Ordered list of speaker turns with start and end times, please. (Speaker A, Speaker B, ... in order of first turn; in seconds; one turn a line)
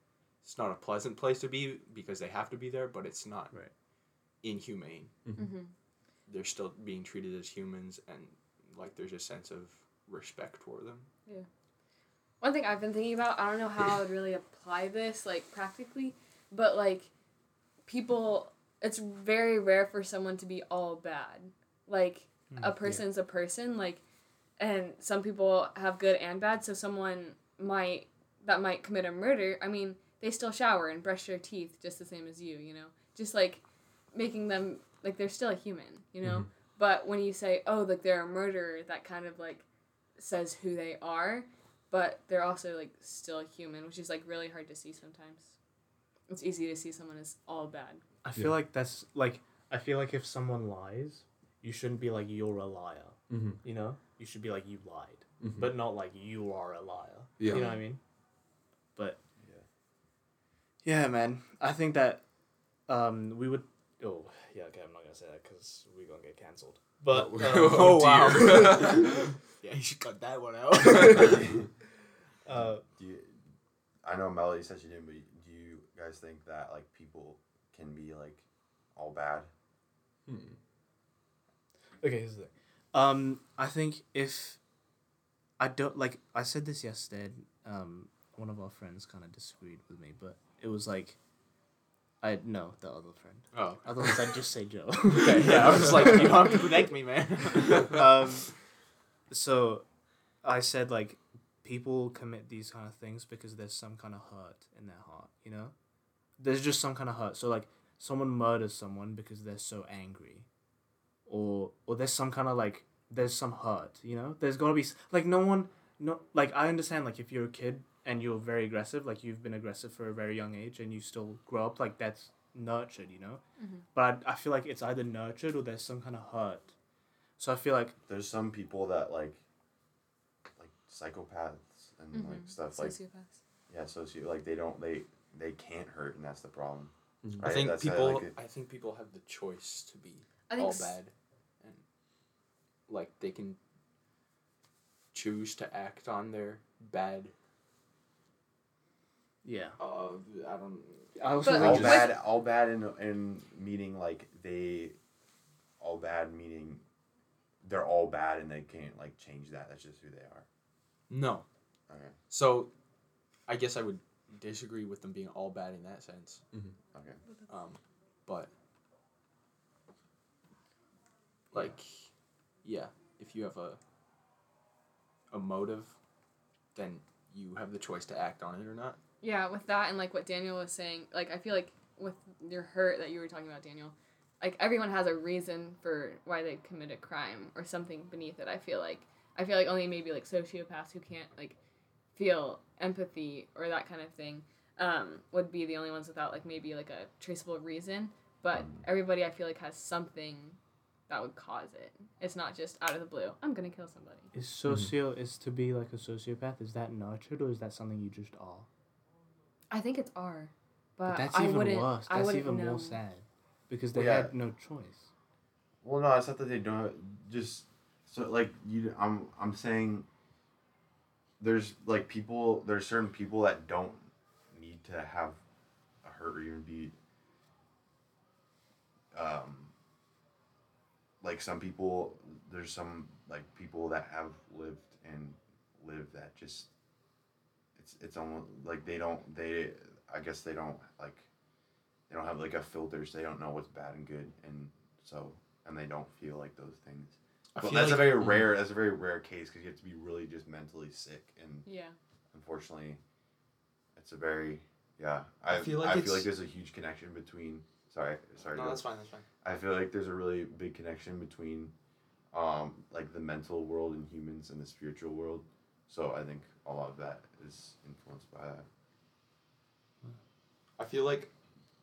Speaker A: 0.4-3.5
Speaker A: 4.4-5.1
Speaker B: 5.3-5.7
Speaker A: 6.3-11.1
Speaker B: 12.4-17.1
Speaker B: 17.9-24.0
Speaker C: 22.5-23.0
Speaker B: 24.6-33.6
Speaker B: 34.1-39.6
Speaker B: 40.2-45.5
Speaker B: 46.3-48.0
Speaker C: 48.2-58.0
Speaker D: 53.3-53.6
Speaker D: 55.4-55.8
Speaker D: 57.4-57.7
Speaker B: 57.5-57.8
Speaker E: 59.4-59.6
Speaker C: 60.8-62.2
Speaker C: 62.9-69.1
Speaker D: 67.1-69.2
Speaker A: 67.6-71.6
Speaker C: 70.8-71.4
Speaker D: 70.9-71.3
Speaker C: 72.4-72.8
Speaker E: 72.5-73.4
Speaker E: 74.0-79.5
Speaker D: 80.2-80.6
Speaker C: 82.0-84.6
Speaker C: 85.6-91.2
Speaker C: 92.2-96.6
Speaker A: 93.5-94.2
Speaker A: 95.1-98.2
Speaker C: 97.5-98.5
Speaker C: 99.3-99.8
Speaker C: 100.4-105.7
Speaker C: 106.4-110.5
Speaker C: 111.3-123.4
Speaker B: 123.6-123.8
Speaker C: 123.9-126.7
Speaker C: 127.4-128.0
Speaker E: 128.1-129.4
Speaker E: 130.6-132.9
Speaker B: 132.1-133.4
Speaker E: 133.7-138.3
Speaker D: 137.2-137.5
Speaker A: 137.4-141.8
Speaker B: 140.5-141.0
Speaker A: 142.9-143.6
Speaker A: 145.1-147.3
Speaker C: 149.4-149.8
Speaker A: 149.8-151.7
Speaker C: 151.1-152.1
Speaker B: 151.4-152.1
Speaker E: 151.5-155.0
Speaker E: 155.8-156.8
Speaker E: 157.6-160.4
Speaker A: 161.1-161.4
Speaker E: 161.9-162.2
Speaker A: 162.3-162.7
Speaker A: 163.5-166.4
Speaker E: 166.9-167.2
Speaker A: 167.5-168.5
Speaker A: 171.5-172.1
Speaker A: 172.6-173.8
Speaker A: 175.3-175.9
Speaker A: 176.7-179.0
Speaker B: 179.2-191.6
Speaker B: 192.2-200.6
Speaker B: 201.1-204.3
Speaker C: 204.3-208.7
Speaker D: 204.7-204.9
Speaker B: 209.7-213.0
Speaker C: 211.1-215.1
Speaker E: 213.9-214.3
Speaker E: 215.8-220.1
Speaker E: 221.4-225.4
Speaker E: 226.0-226.9
Speaker E: 229.1-229.7
Speaker E: 231.2-236.7
Speaker E: 237.8-241.3
Speaker E: 242.1-251.7
Speaker A: 247.5-248.3
Speaker B: 251.7-252.0
Speaker E: 252.3-253.0
Speaker E: 253.9-258.9
Speaker A: 255.5-256.3
Speaker A: 258.5-259.2
Speaker E: 259.4-261.7
Speaker E: 262.3-268.6
Speaker A: 270.8-271.3